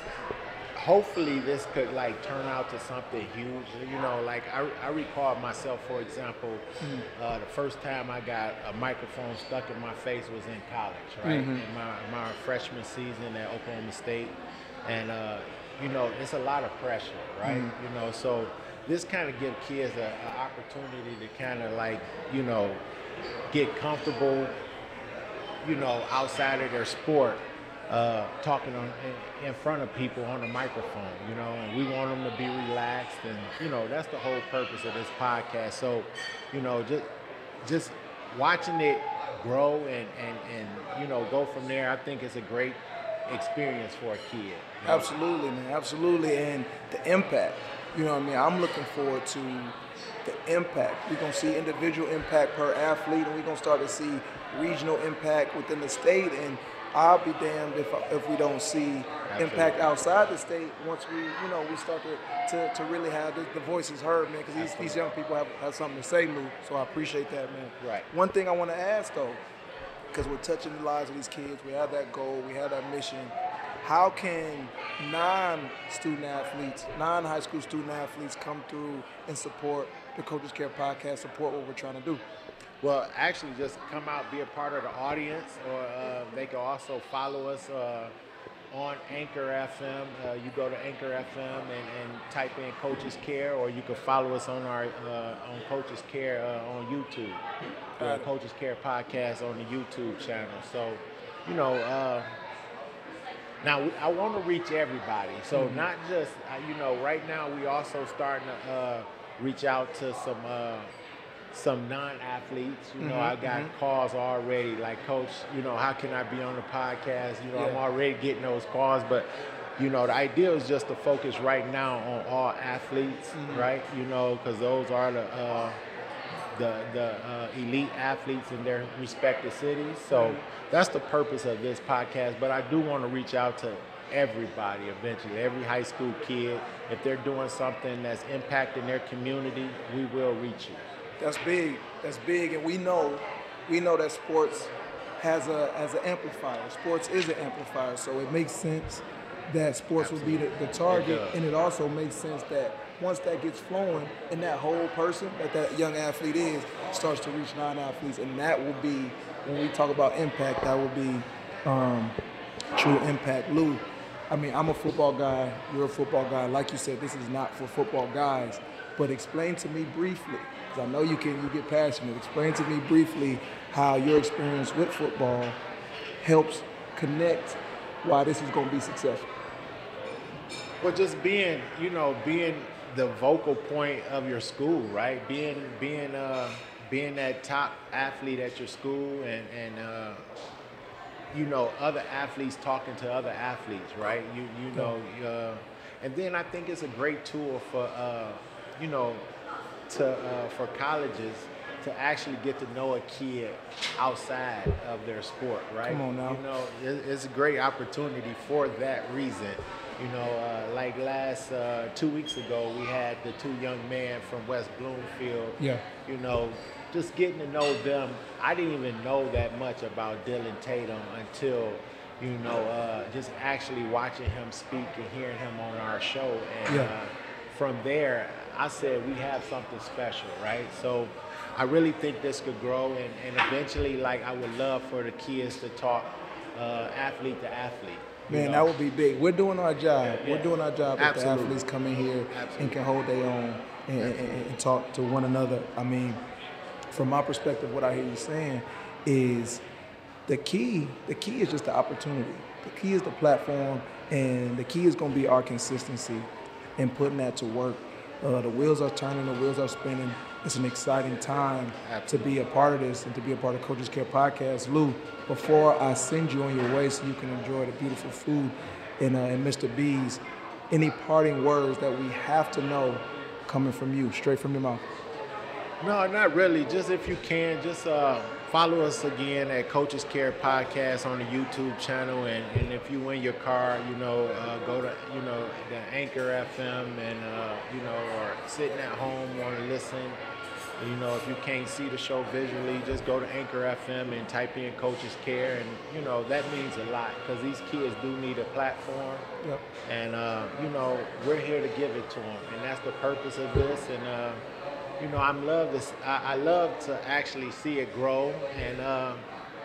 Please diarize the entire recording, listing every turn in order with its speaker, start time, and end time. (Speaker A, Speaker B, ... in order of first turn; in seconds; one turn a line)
Speaker A: 0.7-22.8
Speaker B: 11.2-11.6
Speaker B: 17.4-17.7
Speaker A: 23.5-24.6
Speaker A: 25.6-37.1
Speaker A: 37.6-45.1
Speaker B: 44.8-69.4
Speaker A: 59.3-59.8
Speaker A: 64.5-65.1
Speaker A: 67.8-68.1
Speaker B: 70.1-82.2
Speaker A: 82.8-88.1
Speaker A: 88.7-97.4
Speaker B: 98.0-98.3
Speaker A: 98.0-102.3
Speaker A: 103.6-110.9
Speaker B: 105.5-105.8
Speaker A: 111.5-125.8
Speaker B: 113.0-113.7
Speaker B: 117.5-117.8
Speaker B: 123.3-123.7
Speaker A: 126.5-140.8
Speaker B: 130.1-130.4
Speaker B: 141.2-162.2
Speaker A: 150.0-151.4
Speaker B: 162.7-175.6
Speaker B: 176.2-179.3
Speaker A: 180.8-190.2
Speaker A: 191.3-199.3
Speaker A: 199.9-238.7
Speaker B: 205.8-206.4
Speaker B: 226.7-226.9
Speaker B: 238.3-246.2
Speaker A: 240.2-242.8
Speaker A: 244.0-244.4
Speaker B: 246.9-249.6
Speaker B: 250.3-274.8
Speaker A: 261.8-262.4
Speaker A: 275.8-290.2
Speaker A: 290.8-299.2
Speaker A: 299.9-304.4
Speaker A: 305.0-309.2